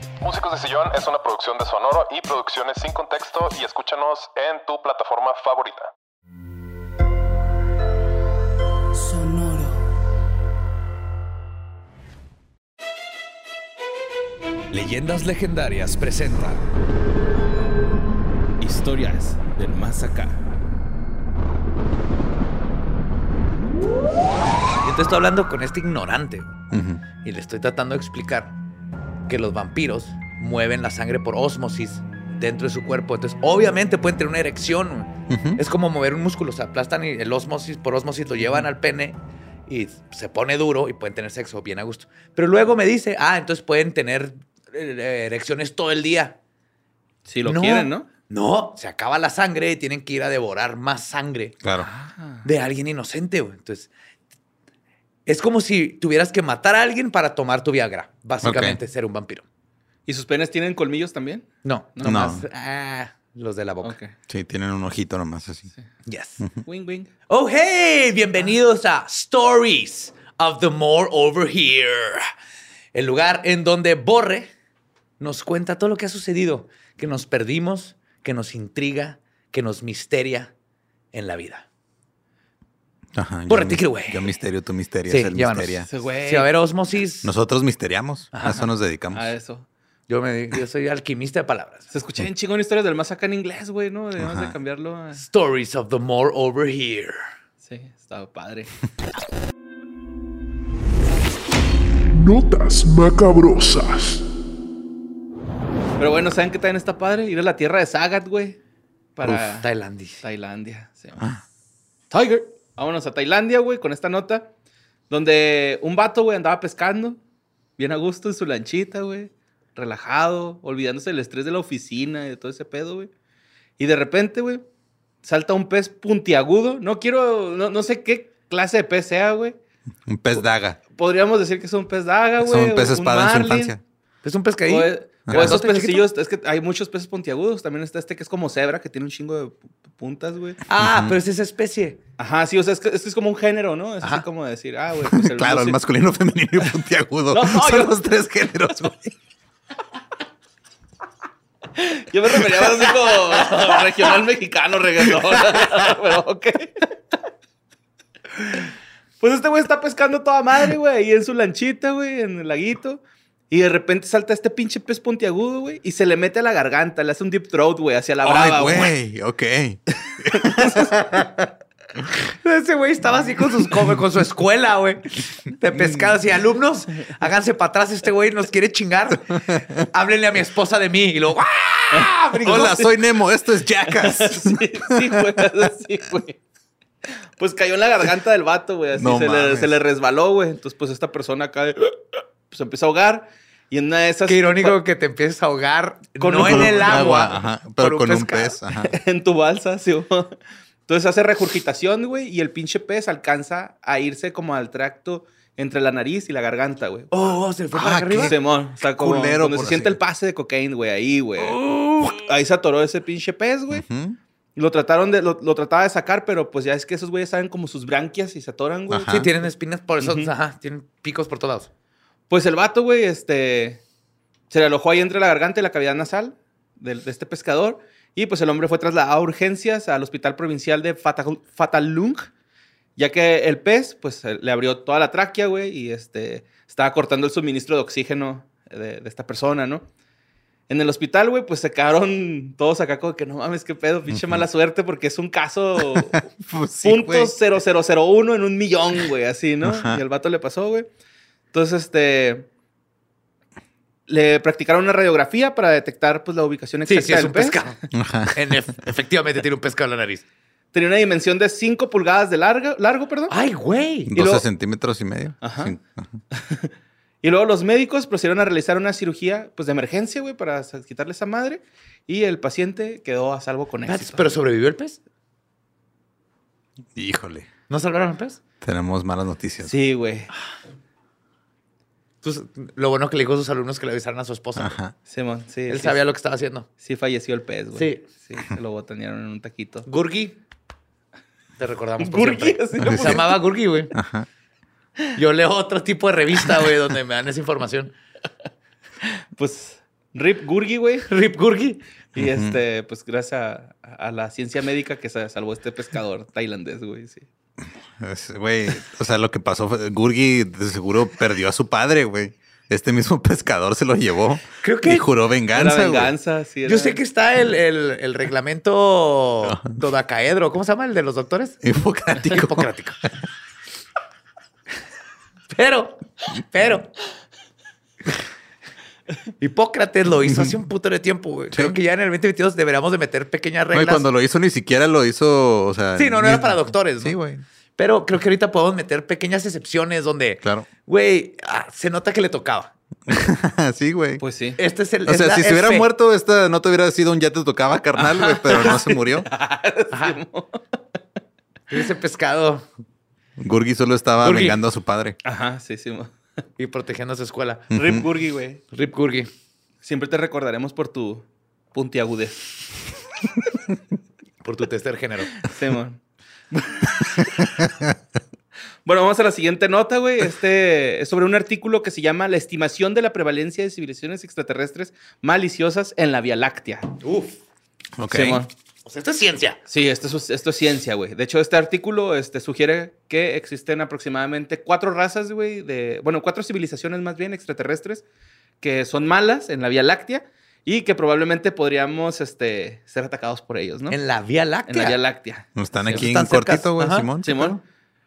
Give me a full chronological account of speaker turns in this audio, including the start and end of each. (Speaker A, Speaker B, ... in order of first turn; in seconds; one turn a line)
Speaker A: 0.2-5.9
Speaker B: 9.1-9.7
Speaker B: 14.7-16.6
Speaker C: 18.6-20.4
Speaker B: 24.8-26.5
Speaker D: 26.7-27.0
Speaker B: 27.2-28.5
Speaker B: 29.3-46.4
Speaker D: 35.3-35.6
Speaker C: 47.2-48.1
Speaker B: 47.4-51.6
Speaker C: 51.8-52.5
Speaker B: 52.4-53.9
Speaker B: 55.2-59.4
Speaker D: 58.4-58.8
Speaker C: 60.1-62.3
Speaker B: 61.6-64.0
Speaker D: 62.0-62.4
Speaker C: 63.8-64.1
Speaker D: 64.3-65.7
Speaker B: 66.0-66.4
Speaker C: 66.6-67.1
Speaker B: 67.3-72.2
Speaker B: 72.9-74.5
Speaker B: 75.2-80.5
Speaker B: 81.1-81.6
Speaker D: 83.1-85.9
Speaker B: 83.5-84.3
Speaker B: 85.1-87.3
Speaker C: 85.9-86.5
Speaker D: 87.2-89.3
Speaker B: 88.3-88.6
Speaker C: 89.1-89.7
Speaker B: 90.1-91.9
Speaker C: 91.9-95.2
Speaker D: 94.2-94.5
Speaker B: 95.2-97.2
Speaker C: 97.6-98.7
Speaker E: 102.1-104.2
Speaker C: 106.0-108.6
Speaker C: 109.2-109.7
Speaker B: 109.6-110.2
Speaker C: 110.2-111.2
Speaker C: 112.1-114.5
Speaker C: 115.1-117.2
Speaker C: 117.8-123.1
Speaker C: 123.8-124.6
Speaker C: 125.2-129.6
Speaker D: 130.1-130.8
Speaker C: 130.9-133.7
Speaker D: 132.4-133.8
Speaker B: 134.2-136.1
Speaker C: 134.7-140.6
Speaker D: 135.3-135.6
Speaker B: 140.7-142.0
Speaker D: 140.8-141.1
Speaker C: 142.2-145.8
Speaker D: 145.1-149.1
Speaker C: 147.3-148.0
Speaker C: 151.7-156.8
Speaker C: 159.2-168.9
Speaker D: 168.2-171.3
Speaker C: 170.2-170.9
Speaker B: 172.2-182.8
Speaker C: 181.9-182.9
Speaker D: 182.4-184.9
Speaker C: 183.8-186.4
Speaker C: 187.4-191.9
Speaker D: 188.9-189.7
Speaker C: 192.5-194.8
Speaker B: 194.2-198.6
Speaker C: 196.2-197.2
Speaker D: 196.4-198.9
Speaker C: 198.9-200.3
Speaker C: 200.9-207.1
Speaker B: 207.1-208.3
Speaker D: 207.7-209.9
Speaker C: 208.2-213.8
Speaker B: 211.4-212.3
Speaker D: 213.7-214.2
Speaker C: 214.6-219.2
Speaker D: 218.9-219.3
Speaker B: 219.0-221.7
Speaker C: 220.0-220.3
Speaker C: 222.3-223.8
Speaker C: 224.5-232.3
Speaker C: 232.9-239.9
Speaker C: 240.7-246.2
Speaker D: 244.1-244.4
Speaker D: 245.9-247.3
Speaker C: 246.8-250.9
Speaker D: 249.6-250.0
Speaker C: 251.5-252.5
Speaker C: 254.1-257.7
Speaker B: 256.9-260.2
Speaker D: 257.9-258.4
Speaker C: 260.7-263.3
Speaker B: 263.3-264.1
Speaker D: 264.1-266.1
Speaker C: 264.1-264.4
Speaker C: 265.4-265.8
Speaker C: 266.3-274.3
Speaker B: 273.9-275.0
Speaker D: 276.9-277.5
Speaker B: 277.7-278.4
Speaker D: 278.6-279.7
Speaker C: 279.6-280.3
Speaker B: 282.2-284.8
Speaker D: 284.6-284.9
Speaker C: 285.1-286.0
Speaker B: 285.7-286.7
Speaker C: 286.8-289.9
Speaker B: 287.7-288.0
Speaker B: 289.9-290.4
Speaker B: 291.6-294.0
Speaker C: 292.0-293.4
Speaker D: 292.8-293.3
Speaker D: 293.9-294.2
Speaker B: 295.1-297.9
Speaker C: 299.4-301.1
Speaker B: 301.0-301.8
Speaker C: 302.1-307.3
Speaker D: 302.2-302.6
Speaker D: 308.0-316.1
Speaker B: 314.6-315.1
Speaker C: 315.5-317.0
Speaker B: 316.6-321.6
Speaker D: 319.4-319.7
Speaker D: 321.6-322.7
Speaker B: 322.2-323.0
Speaker B: 325.5-326.9
Speaker B: 329.4-334.1
Speaker D: 331.5-331.8
Speaker D: 333.7-337.4
Speaker B: 335.9-337.2
Speaker B: 337.8-342.7
Speaker D: 343.1-344.2
Speaker C: 344.2-344.6
Speaker B: 344.6-345.9
Speaker D: 345.1-349.3
Speaker C: 348.0-350.6
Speaker B: 349.9-350.2
Speaker B: 351.7-352.7
Speaker D: 353.4-355.2
Speaker B: 354.2-354.6
Speaker C: 355.2-356.1
Speaker B: 356.6-357.7
Speaker D: 357.7-358.0
Speaker C: 357.7-358.6
Speaker B: 358.7-359.3
Speaker C: 359.8-362.4
Speaker B: 364.4-365.3
Speaker C: 365.4-367.5
Speaker C: 368.8-376.9
Speaker B: 377.0-377.4
Speaker D: 378.0-378.4
Speaker C: 378.1-378.5
Speaker B: 378.8-379.6
Speaker C: 379.7-388.0
Speaker C: 388.6-394.0
Speaker B: 393.9-395.0
Speaker C: 394.7-396.0
Speaker D: 395.6-397.6
Speaker B: 395.9-397.1
Speaker C: 397.2-397.6